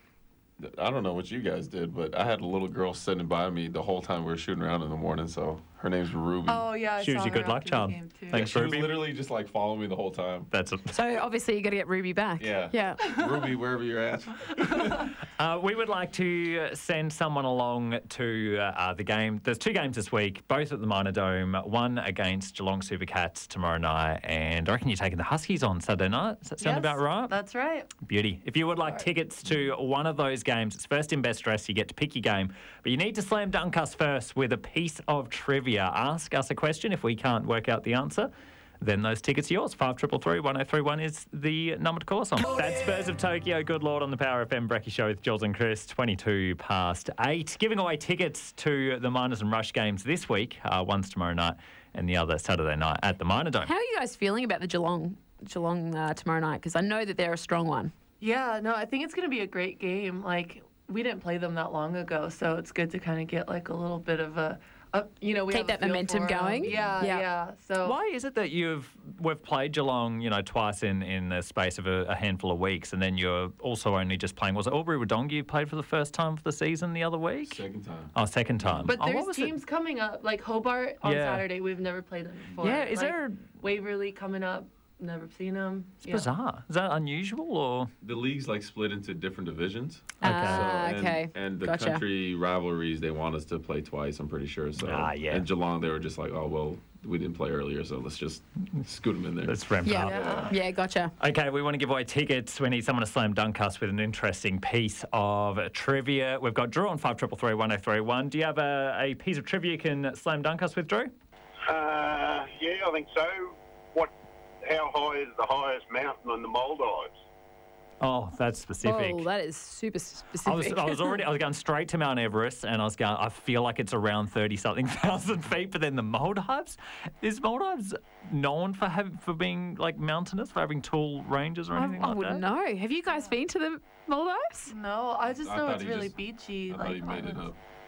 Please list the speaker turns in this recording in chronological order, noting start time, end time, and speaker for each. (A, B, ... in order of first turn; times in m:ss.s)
0:00.6-0:06.7 A
0:06.5-0:08.4 B
0:07.0-0:09.1 C
0:08.3-0:10.5 A
0:10.5-0:11.0 C
0:10.9-0:13.3 D
0:12.4-0:15.1 A
0:15.2-0:27.3 C
0:26.6-0:27.9 B
0:28.0-0:53.7 C
0:53.6-0:57.9 D
0:58.2-1:08.0 B
1:05.5-1:07.3 D
1:06.7-1:07.0 C
1:07.8-1:19.5 C
1:17.4-1:18.1 A
1:18.6-1:18.9 A
1:18.8-1:26.3 B
1:21.0-1:21.5 C
1:22.6-1:23.5 C
1:26.0-1:27.9 C
1:28.0-1:40.6 A
1:30.2-1:30.8 C
1:30.2-1:32.0 D
1:34.8-1:35.5 C
1:39.5-1:40.5 C
1:39.8-1:41.1 D
1:40.0-1:40.6 B
1:41.2-1:51.1 C
1:51.7-1:57.2 E
1:58.0-1:59.3 C
1:58.8-2:01.2 D
2:00.4-2:12.5 C
2:11.7-2:14.7 D
2:14.7-2:17.5 B
2:15.4-2:17.6 A